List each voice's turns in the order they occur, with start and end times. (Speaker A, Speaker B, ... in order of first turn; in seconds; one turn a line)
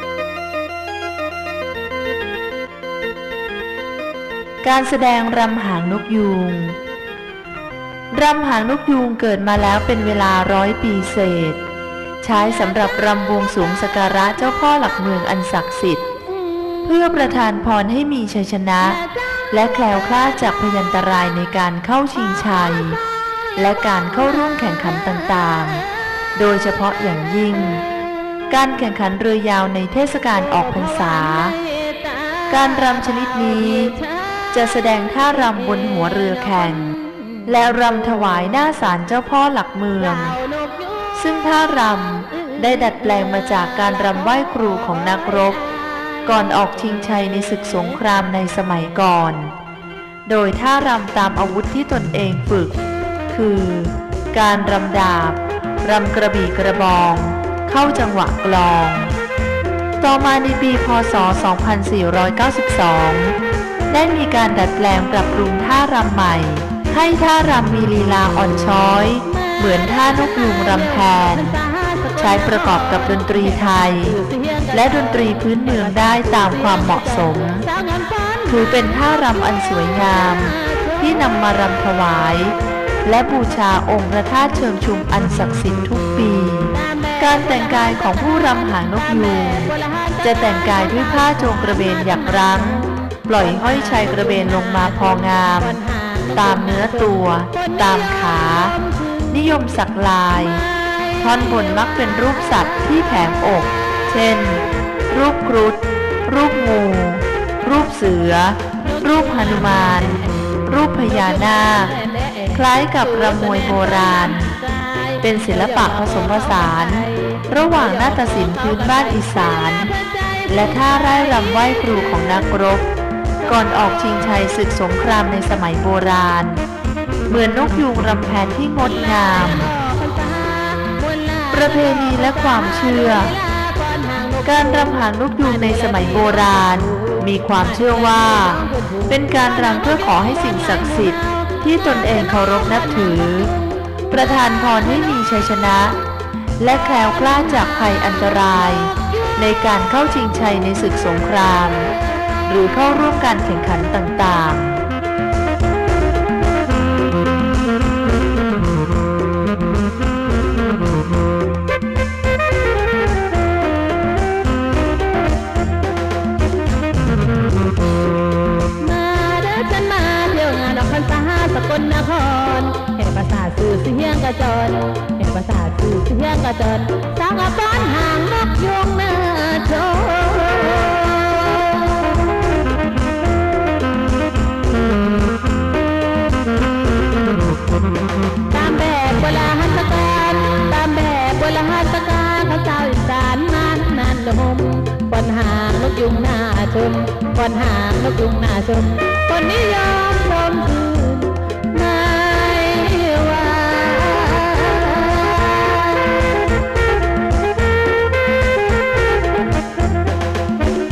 Speaker A: 4.6-6.8
Speaker A: 8.1-11.6
Speaker A: 12.2-16.0
Speaker B: 16.4-16.8
Speaker A: 16.8-23.0
Speaker B: 19.1-19.4
Speaker A: 23.6-27.9
Speaker A: 28.5-31.6
Speaker B: 30.4-34.6
Speaker A: 32.5-34.0
Speaker A: 34.5-40.4
Speaker B: 35.5-37.5
Speaker B: 40.0-41.4
Speaker A: 41.1-45.6
Speaker B: 42.3-43.2
Speaker B: 44.4-46.5
Speaker A: 46.2-49.5
Speaker A: 50.2-52.8
Speaker A: 53.3-59.1
Speaker A: 60.0-63.4
Speaker A: 63.9-71.5
Speaker B: 69.2-78.7
Speaker A: 72.2-74.2
Speaker A: 74.7-77.7
Speaker A: 78.5-95.8
Speaker B: 80.0-81.4
Speaker B: 86.7-99.4
Speaker A: 96.3-100.7
Speaker B: 100.4-101.8
Speaker A: 101.2-111.9
Speaker B: 108.8-122.6
Speaker A: 112.5-114.6
Speaker A: 115.2-119.9
Speaker A: 120.5-122.9
Speaker A: 123.5-126.6
Speaker A: 127.3-129.7
Speaker B: 128.8-143.8
Speaker A: 131.5-133.4
Speaker A: 134.4-143.5
Speaker A: 144.1-146.0
Speaker A: 146.6-151.9
Speaker B: 149.1-149.3
Speaker A: 152.4-154.8
Speaker B: 168.8-182.3
Speaker B: 188.5-206.4